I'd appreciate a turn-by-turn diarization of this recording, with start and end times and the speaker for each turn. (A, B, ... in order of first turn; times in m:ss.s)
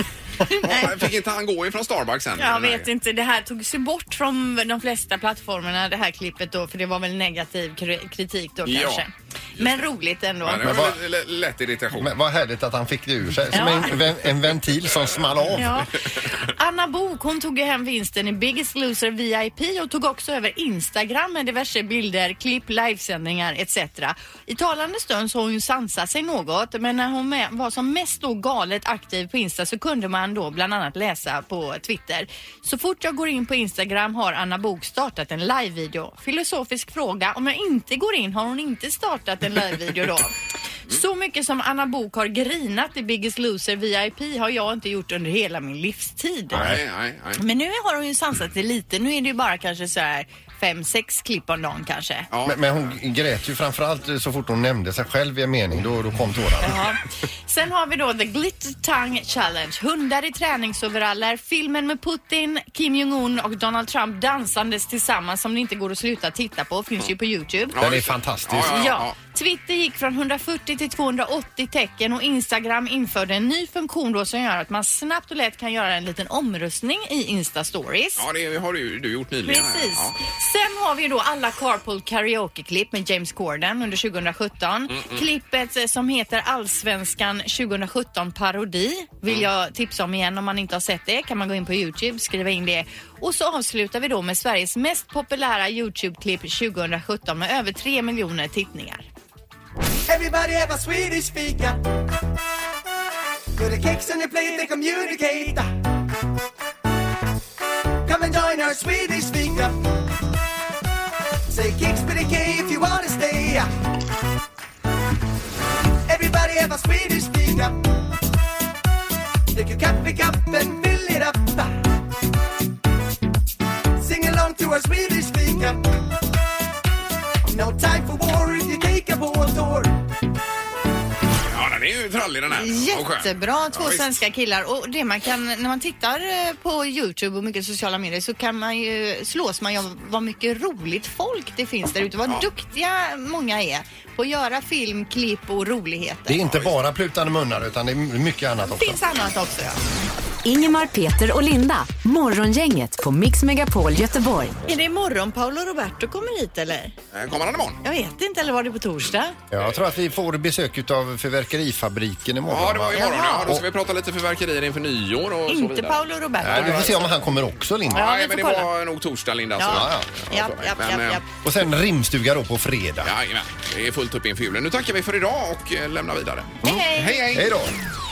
0:00.4-0:00.9 A
0:00.6-0:02.9 B
0:02.4-0:10.7 A
0:08.6-0:09.0 B
0:10.4-0:12.1 B
0:10.6-0:11.0 C
0:11.9-0:15.8 C
0:13.5-0:14.0 A
0:15.6-0:40.3 A
0:40.9-0:46.8 A
0:46.5-0:47.4 B
0:47.4-0:52.3 A
0:52.3-0:52.9 B
0:52.4-0:56.8 C
0:56.6-1:07.8 A
1:07.7-1:09.2 B
1:07.8-1:08.8 C
1:08.6-1:18.3 A
1:18.2-1:20.1 B
1:19.4-1:39.1 A
1:24.9-1:25.2 B
1:40.1-1:41.8 D
1:43.6-1:45.7 D
1:48.1-1:49.8 D
1:51.5-1:53.7 D
1:56.1-1:57.8 D
1:59.5-2:01.7 D
2:04.0-2:05.8 D
2:07.5-2:09.9 D
2:11.5-2:14.1 B
2:12.5-2:26.4 A
2:26.3-2:29.0 C
2:28.6-2:29.8 A
2:30.4-2:34.6 E
2:34.6-2:36.9 A
2:37.1-2:37.8 B
2:37.8-2:39.4 A
2:39.5-2:43.6 C
2:42.5-2:47.0 B
2:43.0-2:43.5 A
2:45.5-2:47.1 A
2:46.4-2:48.1 C
2:47.9-2:51.2 B
2:47.9-2:48.7 A
2:49.6-2:51.3 A
2:49.7-2:50.1 C
2:51.4-2:53.1 C
2:53.0-2:57.5 B
2:56.6-2:57.7 C
2:56.6-2:57.4 A